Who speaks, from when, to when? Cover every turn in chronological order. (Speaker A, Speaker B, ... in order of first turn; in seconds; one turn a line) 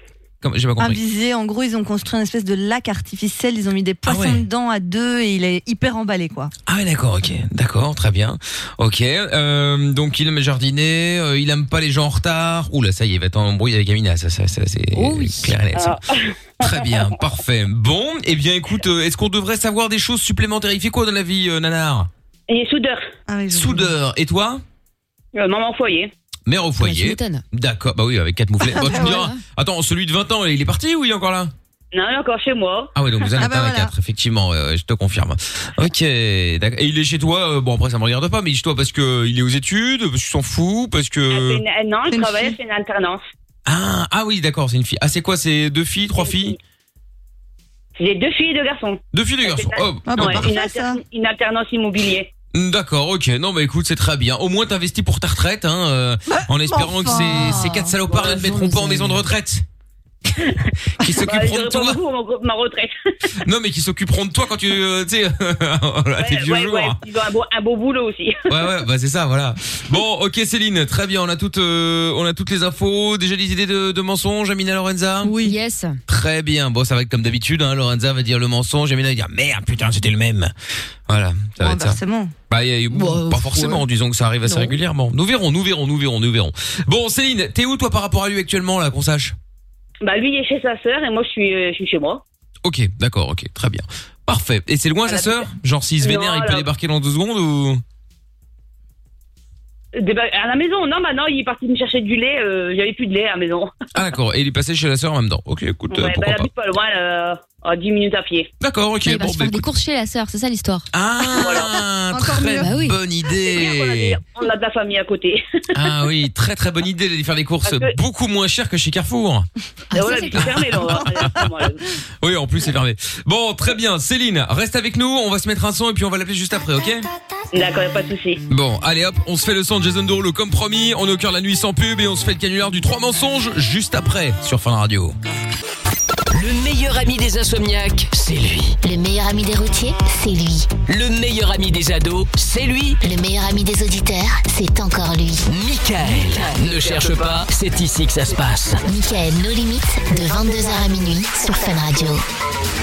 Speaker A: 0.4-1.0
Speaker B: 0.8-6.5
Speaker A: 4.1-4.5
Speaker A: 6.7-16.0
Speaker C: 14.9-15.6
Speaker D: 15.8-17.1
Speaker A: 16.6-22.1
Speaker D: 22.5-23.1
Speaker B: 23.3-23.9
Speaker A: 23.5-24.6
Speaker D: 25.3-26.1
Speaker A: 26.5-31.5
Speaker C: 26.8-27.4
Speaker B: 28.6-29.3
Speaker C: 28.8-29.4
Speaker D: 31.9-33.3
Speaker A: 33.0-41.6
Speaker B: 33.4-33.9
Speaker D: 41.3-43.2
Speaker B: 42.1-42.6
Speaker A: 43.7-46.6
Speaker D: 46.2-46.6
Speaker D: 48.0-52.3
Speaker A: 49.1-50.5
Speaker B: 50.0-51.0
Speaker A: 52.5-59.6
Speaker B: 56.3-57.8
Speaker C: 58.1-59.2
Speaker A: 61.0-62.0
Speaker D: 61.2-62.9
Speaker A: 63.4-67.0
Speaker D: 66.2-68.7
Speaker A: 68.5-75.3
Speaker B: 75.2-75.6
Speaker C: 75.4-76.0
Speaker A: 76.1-80.5
Speaker A: 81.1-82.0
Speaker B: 81.6-82.3
Speaker A: 82.5-89.4
Speaker C: 82.9-83.8
Speaker C: 84.5-84.7
Speaker D: 90.0-92.2
Speaker A: 92.6-97.8
Speaker D: 95.1-95.5
Speaker D: 96.0-96.7
Speaker D: 99.9-103.7
Speaker A: 104.0-106.5
Speaker D: 105.9-108.5
Speaker A: 108.6-109.7
Speaker C: 109.0-110.9
Speaker A: 110.9-114.2
Speaker D: 111.4-111.8
Speaker B: 112.1-112.8
Speaker C: 112.6-113.0
Speaker D: 113.3-116.0
Speaker A: 115.7-119.5
Speaker D: 117.7-117.9
Speaker C: 119.9-120.8
Speaker D: 119.9-121.8
Speaker A: 120.3-121.5
Speaker A: 122.2-127.1
Speaker D: 127.5-128.4
Speaker A: 128.5-135.2
Speaker E: 136.3-138.8
Speaker F: 138.8-140.7
Speaker E: 140.9-143.0
Speaker F: 143.0-145.5
Speaker E: 145.5-148.8
Speaker F: 148.9-152.2